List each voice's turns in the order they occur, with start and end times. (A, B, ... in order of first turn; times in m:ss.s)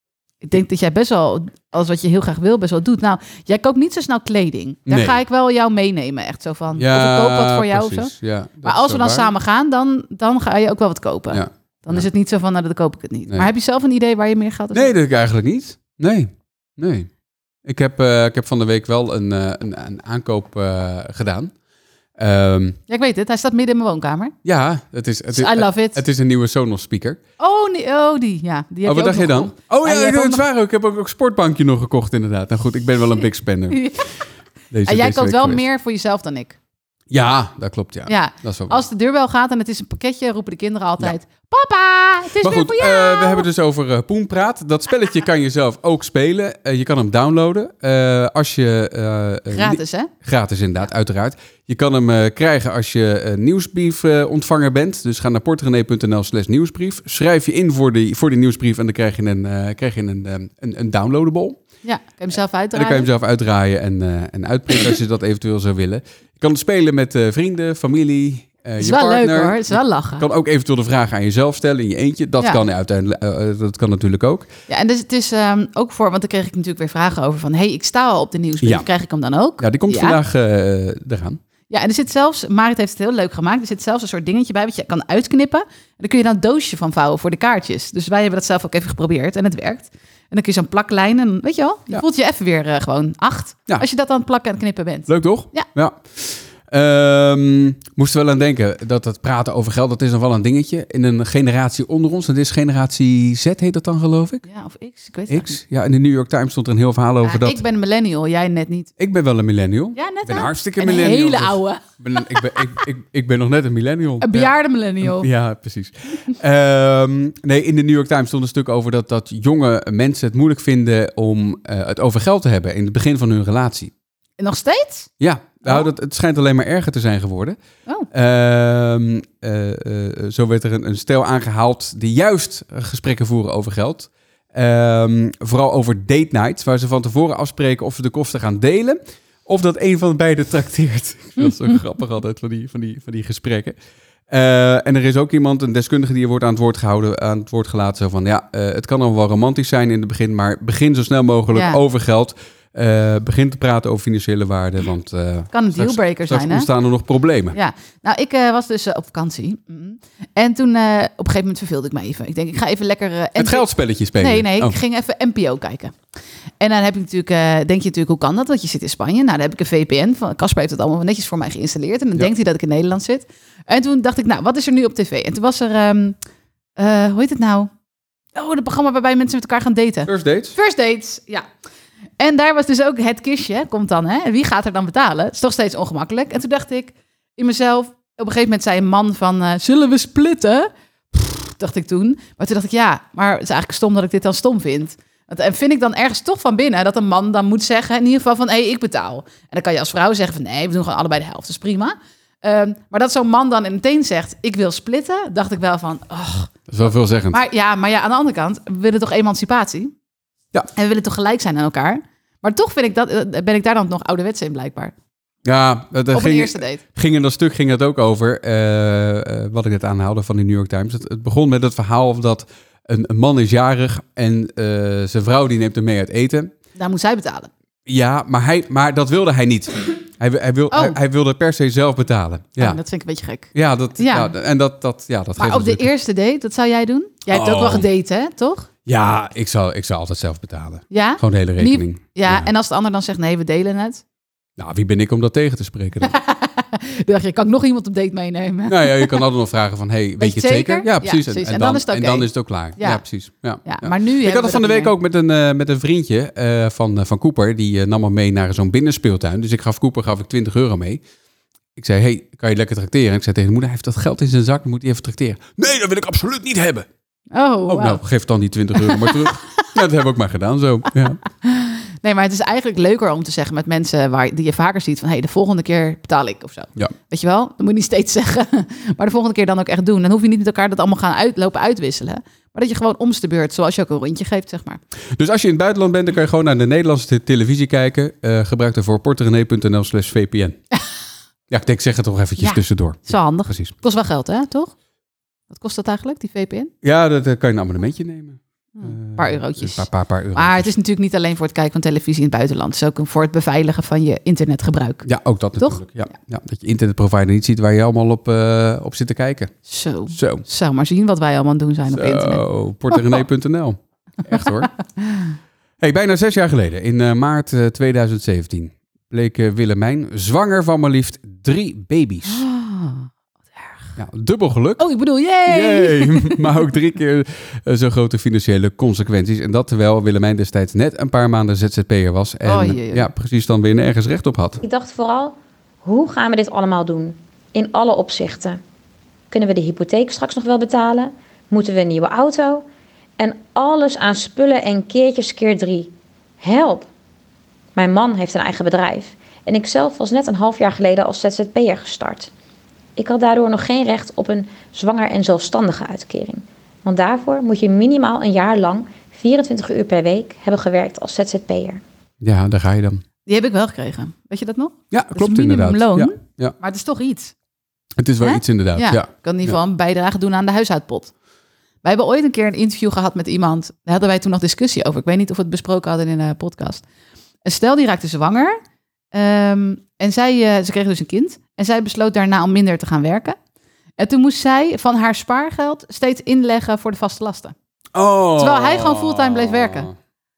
0:00.4-0:08.1 A
0:04.9-0:05.2 B
0:06.8-0:09.3 B
0:08.6-0:14.9 A
0:11.3-0:12.1 B
0:14.7-0:17.1 B
0:17.6-0:21.5 B
0:22.2-0:22.8 B
0:22.9-0:24.3 A
0:24.4-0:27.2 B
0:25.3-0:26.0 A
0:27.4-0:30.4 A
0:28.8-0:33.9 B
0:33.7-0:34.1 A
0:34.7-0:35.6 B
0:34.9-0:36.6 A
0:37.1-0:38.8 B
0:38.1-0:43.5 A
0:42.4-1:01.6 B
0:49.5-0:50.1 A
1:01.8-1:03.1 A
1:02.7-1:14.5 B
1:08.8-1:10.3 A
1:14.7-1:20.2 A
1:19.6-1:21.4 B
1:21.7-1:35.7 A
1:35.1-1:44.4 B
1:44.5-1:45.6 A
1:45.3-1:47.6 B
1:47.2-1:48.9 A
1:49.0-2:03.9 B
1:50.0-1:52.6 A
1:54.2-1:55.3 A
2:04.4-2:05.1 A
2:05.2-2:07.6 B
2:08.1-2:23.8 B
2:24.3-2:37.6 B
2:31.5-2:31.8 A
2:35.5-2:36.7 A
2:37.5-2:43.7 A
2:43.4-2:44.8 B
2:44.2-2:46.0 A
2:46.6-2:56.2 A
2:56.8-2:57.7 A
2:58.4-3:01.5 A
3:00.1-3:00.6 B
3:02.2-3:26.6 A
3:26.7-3:27.4 B
3:27.3-3:29.9 A
3:30.8-3:34.9 A
3:35.4-3:46.5 B
3:36.1-3:36.8 A
3:46.8-3:47.5 A
3:47.9-3:52.8 B
3:50.7-3:51.0 A
3:52.6-3:54.3 A
3:53.5-3:55.9 B
3:55.4-3:58.7 A
3:57.3-3:57.9 B
3:58.9-4:02.5 B
4:00.9-4:04.0 A
4:04.6-4:06.2 B
4:06.0-4:09.2 A
4:08.7-4:21.0 B
4:10.2-4:13.0 A
4:13.6-4:14.9 A
4:21.8-4:26.9 B
4:27.3-4:28.0 A
4:27.7-4:31.2 B
4:28.8-4:29.6 A
4:31.4-4:44.8 A
4:45.1-4:50.6 B
4:51.5-4:53.7 B
4:52.4-4:54.7 A
4:55.5-4:56.7 A
4:56.8-5:00.7 B
4:58.8-5:05.1 A
5:05.0-5:09.5 B
5:09.7-5:13.2 A
5:10.1-5:10.4 B
5:11.9-5:14.7 B
5:15.0-5:15.3 A
5:15.8-5:22.4 B
5:22.3-5:24.0 A
5:24.0-5:24.8 B
5:24.8-5:26.6 A
5:25.4-5:34.6 B
5:32.4-5:33.1 A
5:34.6-5:38.6 C
5:39.3-5:42.6 C
5:43.2-5:46.9 C
5:47.8-5:52.3 C
5:53.0-6:01.8 C
6:02.2-6:03.0 B
6:03.3-6:07.3 A
6:04.9-6:06.6 B
6:08.0-6:09.6 B
6:08.2-6:11.1 A
6:11.8-6:16.8 A
6:17.4-6:18.6 A
6:19.1-6:23.4 A
6:24.0-6:27.6 A
6:27.9-6:30.0 B
6:28.4-6:29.9 A